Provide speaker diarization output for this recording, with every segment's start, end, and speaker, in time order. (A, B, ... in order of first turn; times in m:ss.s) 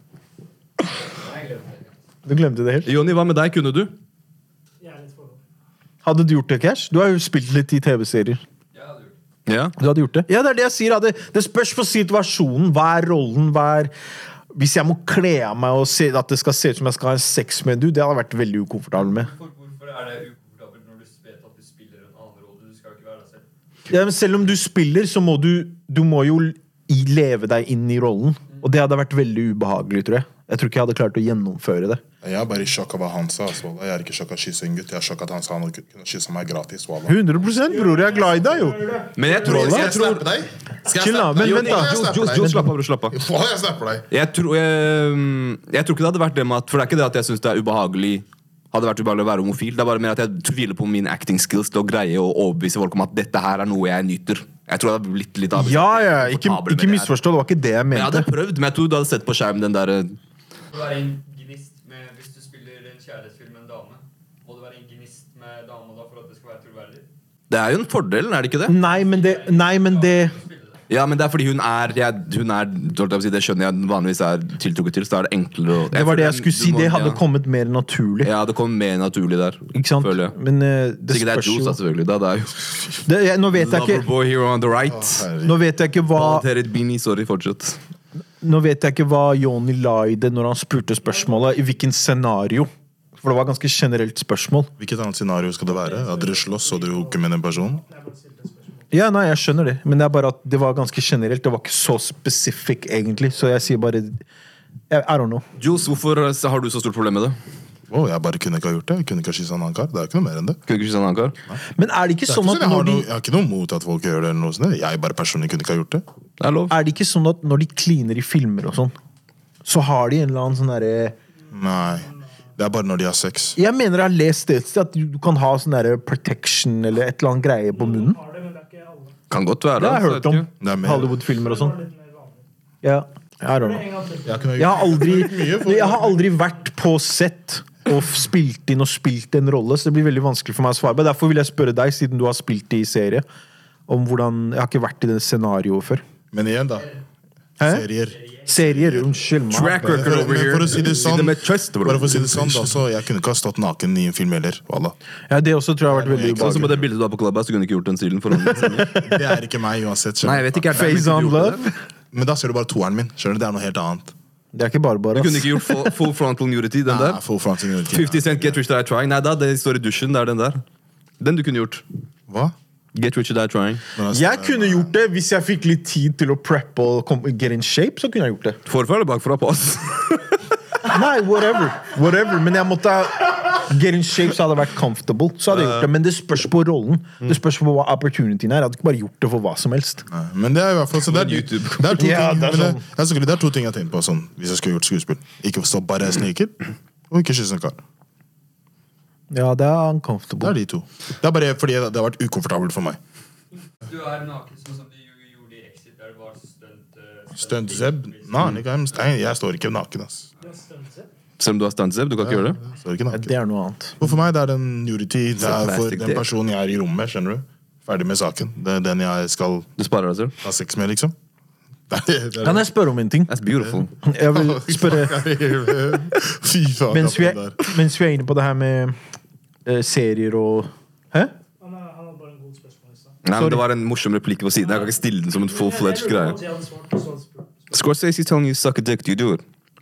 0:01.2-0:01.8 A
0:02.2-0:02.9 B
0:02.8-0:03.9 C
0:04.8-0:05.4 D
0:06.0-0:08.4 B
0:08.7-0:09.2 A
0:09.5-0:09.8 C
0:09.8-0:13.9 B
0:14.5-0:19.3 B
0:19.0-0:23.4 A
0:23.9-0:32.0 B
0:32.2-0:37.2 E
0:37.1-0:38.8 B
0:37.6-0:39.5 D
0:39.2-0:40.3 C
0:39.4-0:39.9 B
0:39.5-0:44.1 E
0:40.9-0:42.7 B
0:41.4-0:43.2 C
0:44.1-0:57.1 C
0:55.6-0:58.3 B
0:57.9-1:00.2 C
1:00.7-1:07.1 A
1:07.5-1:08.8 C
1:08.7-1:10.4 B
1:08.8-1:10.8 A
1:10.9-1:17.2 C
1:15.9-1:18.3 B
1:18.2-1:20.4 C
1:19.7-1:21.8 B
1:21.1-1:22.6 C
1:23.0-1:24.0 B
1:23.5-1:25.3 C
1:24.9-1:25.5 E
1:25.4-1:26.5 B
1:26.2-1:27.8 C
1:28.4-1:34.7 B
1:34.8-1:37.8 E
1:35.7-1:38.9 D
1:38.9-1:44.2 B
1:44.9-1:45.4 B
1:45.6-1:47.4 C
1:47.9-1:50.6 E
1:50.7-1:51.4 C
1:51.8-1:53.1 B
1:52.3-1:56.0 E
1:56.4-1:56.8 C
1:56.7-1:59.0 B
1:59.6-2:01.2 B
2:01.5-2:03.6 E
2:01.5-2:02.3 D
2:03.6-2:08.2 B
2:07.7-2:09.2 D
2:09.3-2:10.5 C
2:09.8-2:11.8 B
2:10.6-2:11.2 E
2:11.0-2:12.4 D
2:12.8-2:13.8 B
2:13.6-2:14.6 D
2:14.3-2:16.2 E
2:14.6-2:23.2 B
2:23.9-2:26.0 B
2:26.3-2:26.9 E
2:27.6-2:27.9 B
2:27.6-2:29.1 E
2:28.5-2:30.4 B
2:29.5-2:32.7 C
2:29.7-2:35.0 E
2:35.3-2:36.8 B
2:35.9-2:36.8 E
2:36.2-2:39.1 C
2:38.5-2:41.0 E
2:40.2-2:41.6 C
2:40.7-2:41.8 B
2:42.1-2:44.1 E
2:44.5-2:45.9 B
2:45.1-2:47.2 C
2:46.9-2:48.6 E
2:47.9-2:50.6 C
2:51.2-2:51.8 C
2:52.3-2:52.6 E
2:53.0-2:53.8 C
2:54.0-2:54.9 E
2:54.1-2:58.6 B
2:58.7-3:00.4 C
3:00.8-3:10.1 B
3:05.5-3:05.9 C
3:10.1-3:17.8 E
3:11.1-3:12.1 C
3:12.0-3:12.8 B
3:19.3-3:20.6 B
3:20.4-3:23.0 E
3:23.9-3:28.5 A
3:27.4-3:30.3 E
3:30.4-3:31.1 D
3:31.4-3:32.6 C
3:32.2-3:33.3 E
3:33.1-3:34.0 B
3:34.0-3:39.7 E
3:35.4-3:36.3 C
3:39.8-3:40.4 C
3:40.4-3:41.2 E
3:41.9-3:42.7 E
3:42.4-3:43.3 B
3:43.3-3:43.9 C
3:43.6-3:47.7 E
3:44.0-3:45.2 B
3:46.9-3:49.0 B
3:49.6-3:51.3 B
3:51.6-3:53.2 D
3:53.2-3:56.4 C
3:53.4-3:53.6 B
3:54.6-3:57.6 D
3:57.7-3:59.4 C